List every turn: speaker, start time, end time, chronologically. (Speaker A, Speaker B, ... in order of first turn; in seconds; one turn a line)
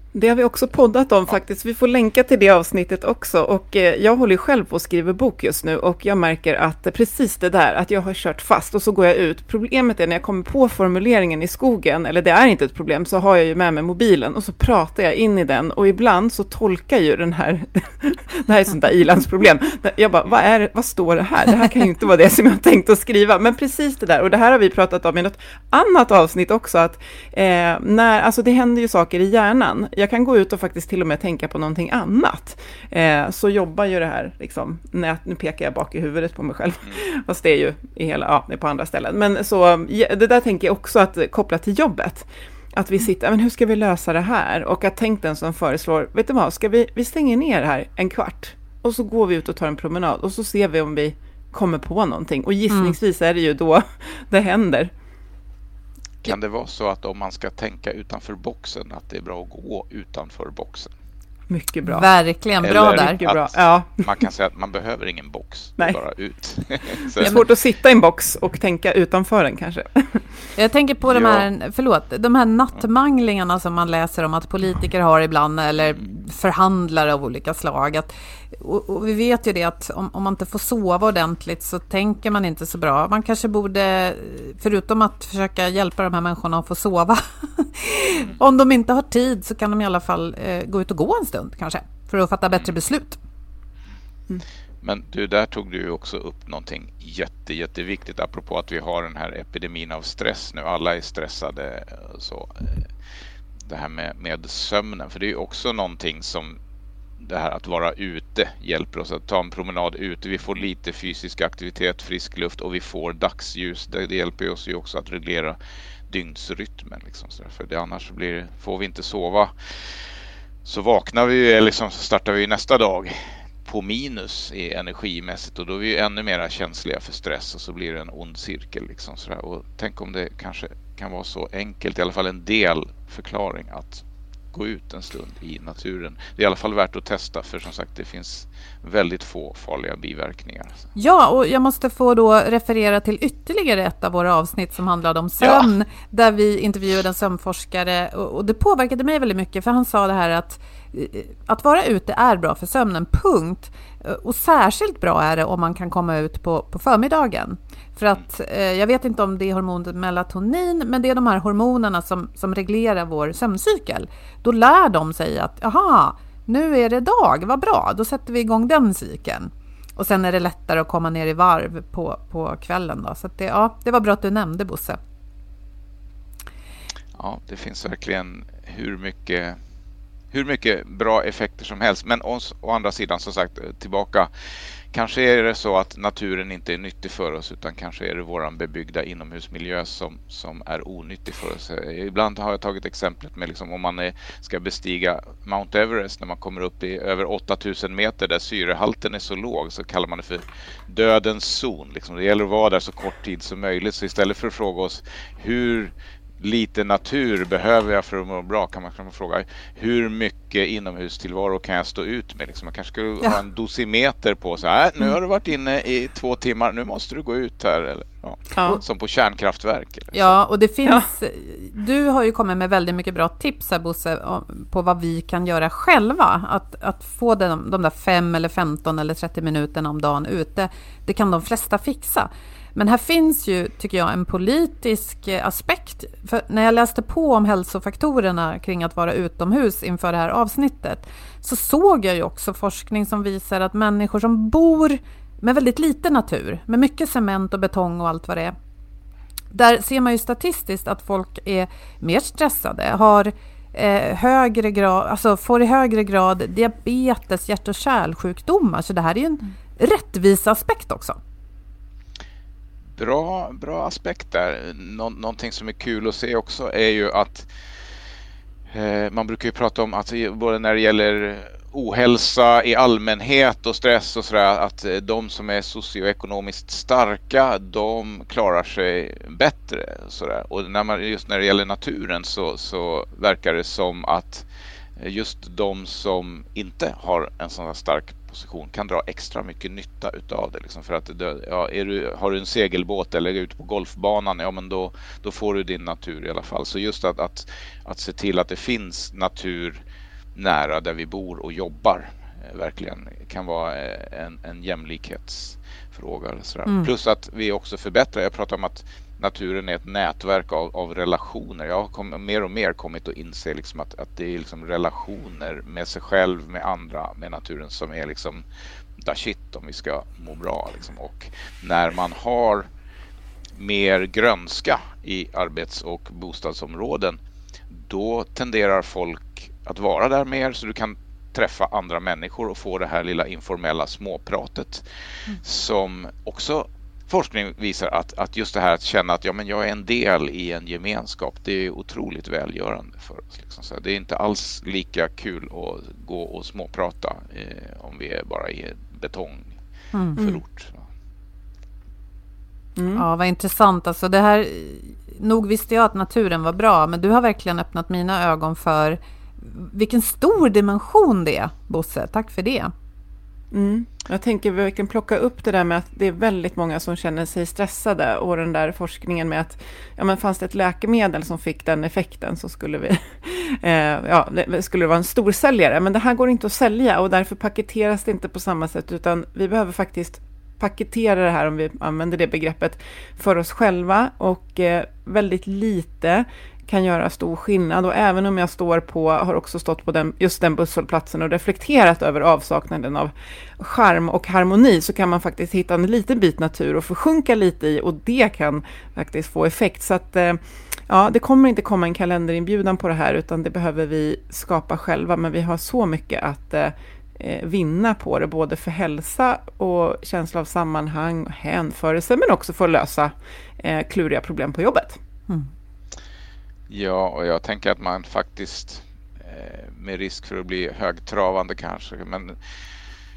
Speaker A: 0.1-54.9
Speaker B: 52.7-53.0
Speaker C: 56.2-60.9
Speaker A: 61.5-62.1
Speaker B: 61.8-63.2
Speaker C: 62.6-67.4
Speaker A: 62.7-64.0
Speaker A: 67.2-70.3
Speaker B: 67.2-67.5
Speaker B: 70.5-93.2
Speaker C: 71.1-71.5
Speaker C: 94.8-102.9
Speaker C: 103.7-106.6
Speaker C: 107.2-115.6
Speaker C: 116.1-119.5
Speaker C: 120.6-140.9
Speaker B: 140.9-175.0
Speaker C: 145.4-145.7
Speaker C: 177.2-179.6
Speaker C: 180.3-184.3
Speaker C: 184.9-220.3
Speaker A: 218.5-218.8
Speaker B: 220.1-248.5
Speaker B: 249.5-261.2
Speaker C: 263.0-267.5
Speaker C: 268.7-284.4
Speaker C: 285.0-299.8
Speaker C: 300.3-318.4
Speaker B: 306.6-306.9
Speaker C: 319.0-322.7
Speaker C: 323.6-327.2
Speaker C: 327.7-334.8
Speaker C: 335.4-349.6
Speaker B: 349.9-350.2
Speaker C: 350.1-350.9
Speaker A: 352.8-353.0
Speaker B: 352.9-362.7
Speaker A: 363.5-415.0
Speaker C: 416.7-422.4